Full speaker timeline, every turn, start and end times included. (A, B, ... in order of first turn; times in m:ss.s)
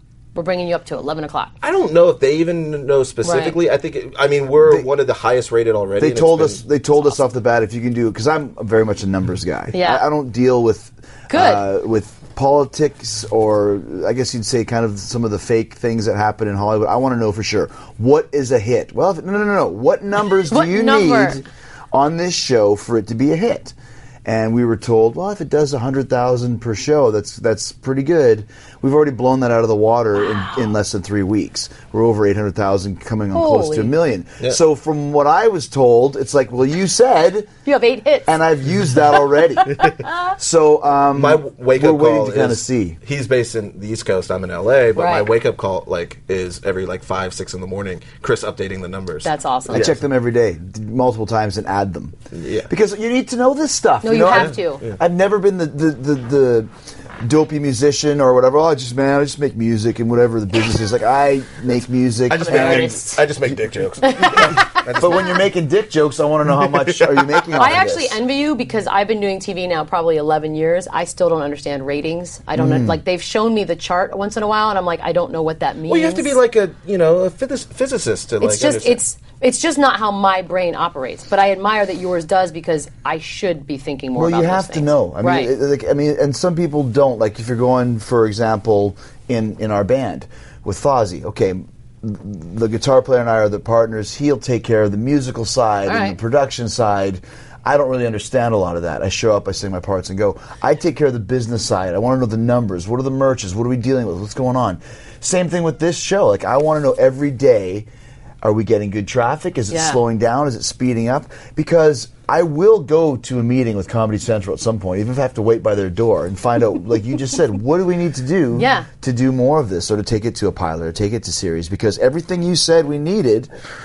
0:00.4-0:01.5 A
0:01.6-0:06.6 B
0:03.2-0:03.6 A
0:04.6-0:04.9 C
0:06.0-0:23.7 C
0:09.7-0:10.0 A
0:11.3-0:11.6 A
0:20.5-0:21.4 A
0:24.2-0:37.5 C
0:30.3-0:30.7 A
0:33.3-0:33.9 A
0:37.6-0:38.4 A
0:38.3-0:43.0 C
0:39.8-0:40.3 A
0:41.1-0:50.0 B
0:45.0-0:45.3 A
0:49.2-0:49.9 A
0:49.7-0:52.1 C
0:52.3-0:52.7 B
0:52.7-1:03.1 C
0:54.0-0:54.8 A
0:54.3-0:55.0 B
1:02.3-1:05.4 B
1:02.4-1:03.2 A
1:04.1-1:04.6 A
1:04.2-1:08.2 C
1:06.6-1:07.3 B
1:07.5-1:16.4 A
1:12.6-1:13.0 C
1:15.9-1:19.0 B
1:18.4-1:25.5 A
1:24.2-1:47.9 C
1:35.9-1:36.2 A
1:48.4-2:03.5 C
1:49.7-1:50.0 A
1:58.5-1:58.9 A